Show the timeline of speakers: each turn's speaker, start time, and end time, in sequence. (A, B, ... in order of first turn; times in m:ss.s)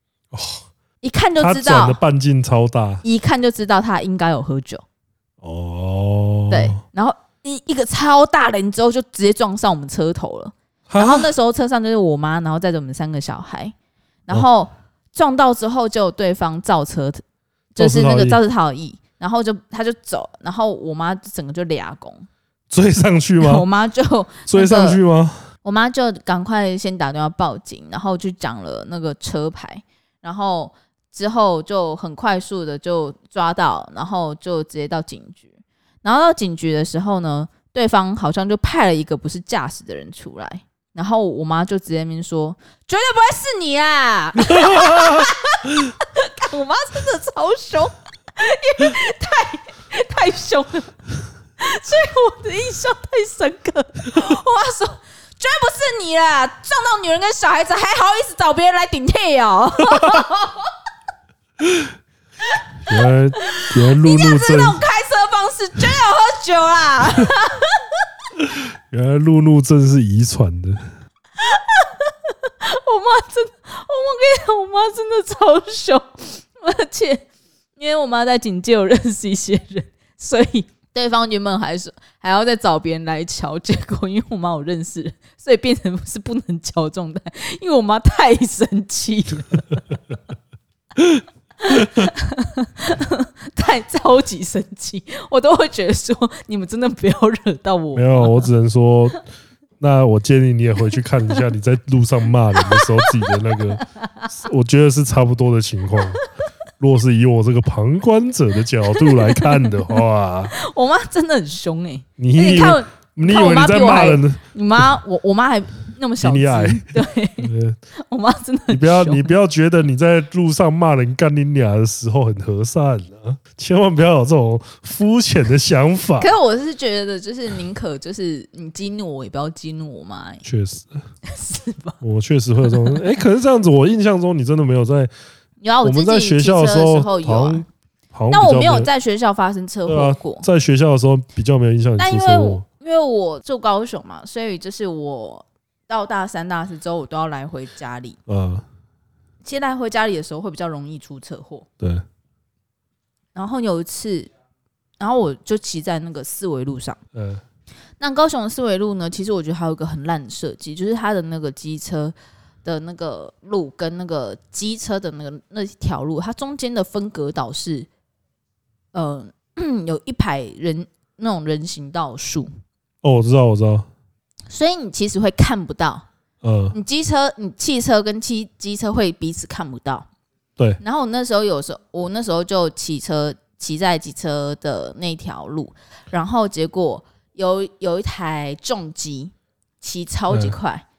0:00.3-0:00.6 A
0:01.0-0:02.0 B
0:01.4-0:03.0 A
0:03.0-0:04.8 B
0:05.4-0:06.8 A
0:06.5-0:13.7 B
0:10.9-0:11.3 A
0:14.3-0:17.2 B
0:17.8-0:22.3 B
0:17.8-0:18.4 A
0:22.7-0:23.6 A
0:23.4-0:25.0 B
0:24.5-0:25.4 A
0:25.6-0:35.5 B
0:36.0-0:50.9 B
0:44.4-0:45.3 A
0:51.6-1:00.7 B
1:01.6-1:01.9 A
1:02.9-1:04.8 A
1:02.9-1:07.9 B
1:08.9-1:10.8 A
1:11.4-1:17.3 B
1:17.8-1:29.8 B
1:31.0-1:32.1 A
1:31.6-1:38.5 B
1:38.0-1:39.2 A
1:39.8-1:46.2 A
1:42.6-1:44.3 B
1:46.8-1:50.5 A
1:48.9-1:50.0 B
1:50.5-1:59.3 B
1:52.2-1:54.4 A
1:56.2-1:56.9 A
1:57.4-1:57.8 A
1:58.7-2:06.3 A
2:06.2-2:10.4 B
2:10.4-2:11.0 A
2:11.3-2:12.0 B
2:12.0-2:15.1 A
2:12.6-2:13.0 B
2:15.6-2:17.6 B
2:15.8-2:18.9 A
2:18.3-2:20.4 B
2:19.9-2:22.6 A
2:22.0-2:28.2 B
2:28.3-2:28.6 A
2:29.4-2:31.6 B
2:33.3-2:34.3 B
2:35.0-2:37.0 B
2:37.1-2:37.4 A
2:38.0-2:47.9 B
2:48.9-2:52.5 B
2:53.0-2:53.9 A
2:54.5-2:56.0 B
2:56.4-2:56.8 A
2:56.7-3:00.1 B
3:00.8-3:10.8 B
3:10.3-3:10.6 A